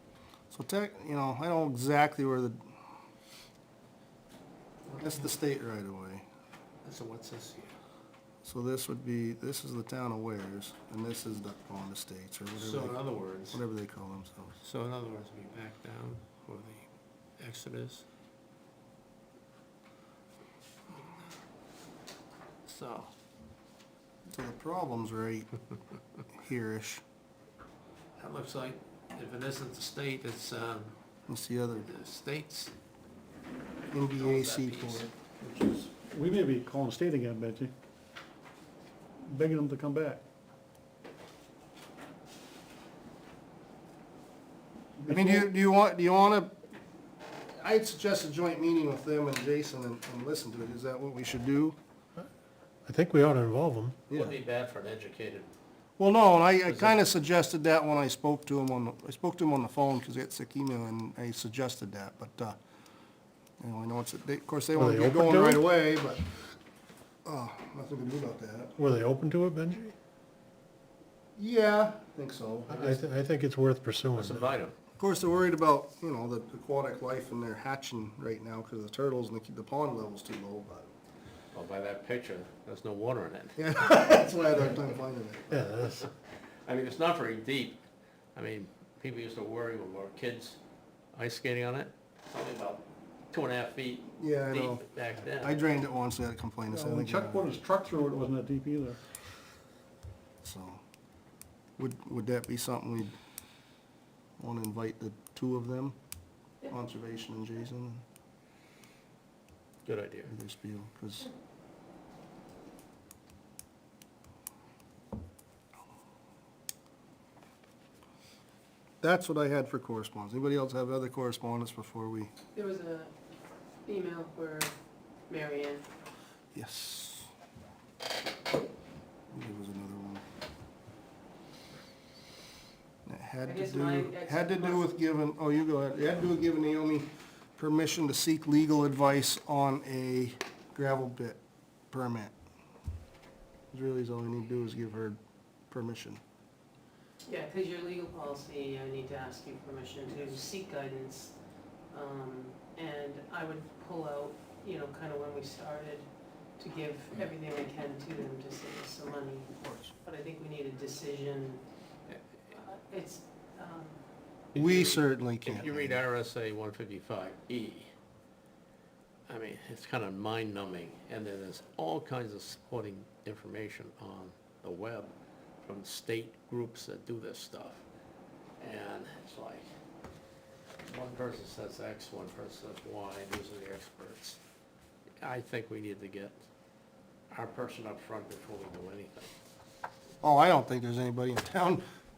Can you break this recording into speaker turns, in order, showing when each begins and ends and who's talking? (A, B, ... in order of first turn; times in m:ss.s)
0:00.5-0:02.6 A
0:05.0-0:06.2 A
0:06.8-0:07.7 B
0:08.4-0:14.6 A
0:12.6-0:13.6 B
0:14.6-0:16.9 B
0:17.4-0:18.0 B
0:22.6-0:23.1 B
0:24.3-0:25.5 A
0:26.2-0:27.0 A
0:28.2-0:30.9 B
0:31.3-0:31.9 A
0:31.8-0:32.7 B
0:33.9-0:35.1 A
0:34.1-0:35.1 B
0:35.4-0:37.7 C
0:39.2-0:40.2 C
0:45.0-0:45.5 C
0:45.1-0:46.6 A
0:47.6-0:51.8 A
0:52.8-0:54.0 D
0:54.1-0:55.5 B
0:56.0-1:02.6 A
0:56.7-0:57.0 B
1:03.6-1:06.3 A
1:04.7-1:05.6 D
1:07.2-1:08.7 A
1:08.8-1:09.9 D
1:11.4-1:13.0 A
1:12.7-1:14.4 D
1:14.2-1:14.7 B
1:15.0-1:20.9 A
1:21.5-1:23.8 B
1:23.6-1:25.7 A
1:25.5-1:26.1 D
1:26.0-1:27.8 B
1:28.3-1:30.6 B
1:31.1-1:35.6 B
1:34.2-1:37.5 A
1:36.7-1:39.0 C
1:40.4-1:40.8 A
1:41.8-1:43.1 A
1:44.4-1:46.0 A
1:46.6-1:48.0 A
1:49.8-1:50.3 B
1:50.3-1:51.3 A
1:59.0-2:02.3 A
2:02.5-2:03.1 E
2:03.8-2:04.7 E
2:05.3-2:05.8 E
2:06.5-2:07.3 A
2:09.3-2:10.2 A
2:13.0-2:21.4 A
2:13.4-2:14.8 E
2:21.9-2:22.3 A
2:23.7-2:25.2 A
2:25.7-2:26.2 A
2:27.2-2:31.4 E
2:31.9-2:36.1 E
2:36.6-2:39.5 E
2:39.6-2:39.9 A
2:40.0-2:41.6 E
2:42.5-2:44.0 E
2:44.5-2:47.9 B
2:44.5-2:46.0 A
2:49.3-2:57.8 B
2:58.6-2:59.6 B
3:00.8-3:04.4 B
3:05.2-3:06.4 B
3:07.3-3:09.3 B
3:10.2-3:11.8 A